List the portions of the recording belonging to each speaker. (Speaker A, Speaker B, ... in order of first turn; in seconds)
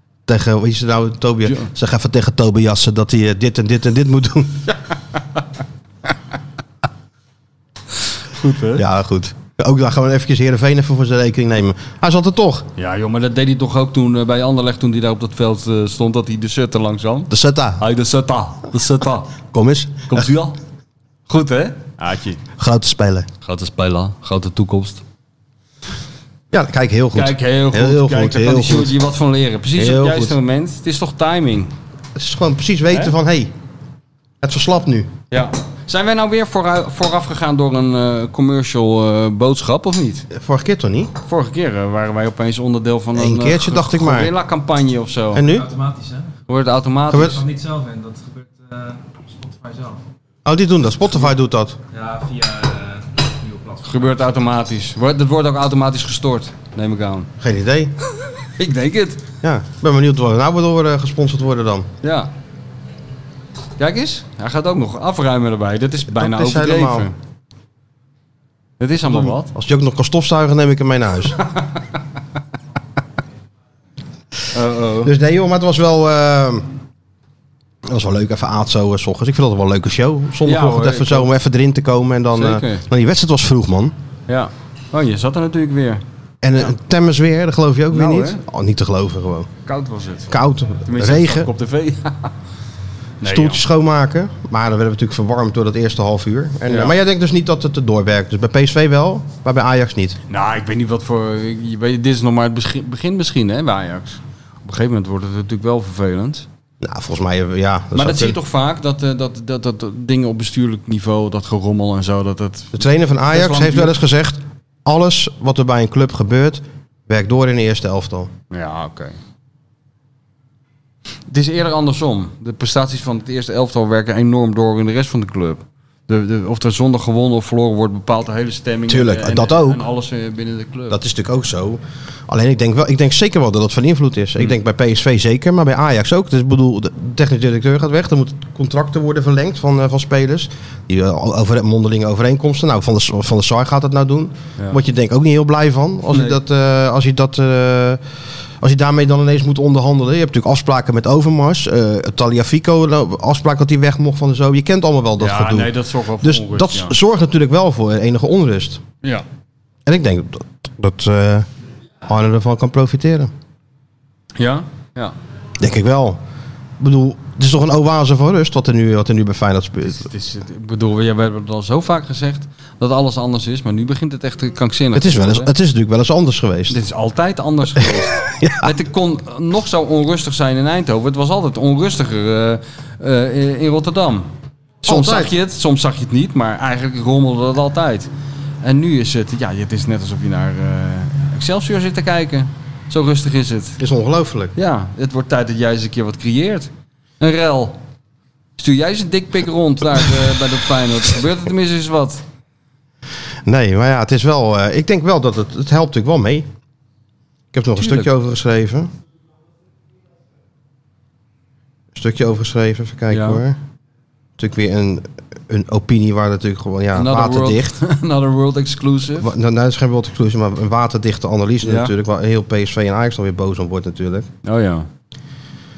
Speaker A: 0.3-4.7, 8.8-12.7, 17.3-17.8, 19.5-20.3, 22.6-23.3, 26.5-29.0, 29.8-30.4, 32.2-33.5, 34.4-35.1, 40.3-41.1, 43.1-44.3, 45.3-45.7, 47.1-47.4, 50.5-51.8, 57.4-57.9, 59.4-61.9, 66.1-67.1, 69.0-71.4, 75.0-76.7, 77.8-83.9, 86.4-89.5, 90.3-91.5, 93.2-100.2, 106.8-108.4, 112.7-118.3, 128.9-129.8, 130.9-148.0, 148.6-158.8, 159.9-161.5, 162.1-163.3, 165.6-166.2, 166.8-170.1, 174.9-176.8, 177.8-178.7, 184.8-185.3, 193.8-194.5, 203.4-206.5, 207.5-208.9, 211.9-213.6, 214.4-217.8, 219.2-224.3
Speaker B: 1.4-1.7, 8.3-8.8, 12.8-19.4, 20.1-20.6, 21.3-22.4, 23.4-25.0, 27.1-31.7, 35.3-40.3, 41.3-45.5, 46.5-47.4, 53.8-57.3, 58.6-59.2, 62.0-62.3, 63.8-67.1, 68.8-69.5, 74.5-75.1, 80.5-81.3, 82.3-82.9, 84.3-86.0, 87.9-88.4, 89.7-90.3, 90.8-92.3, 93.2-93.6, 96.7-97.0, 100.3-106.5, 108.0-114.0, 118.5-119.2, 121.3-131.0, 146.1-146.4, 155.2-157.0, 164.4-165.2, 169.9-175.5, 176.7-184.3, 184.8-188.1, 188.6-193.8, 194.6-197.8, 198.6-202.2, 207.8-208.1, 213.1-213.4, 216.9-219.3, 221.6-221.9, 224.4-224.9
Speaker C: 45.5-46.4, 47.2-50.0, 51.9-54.2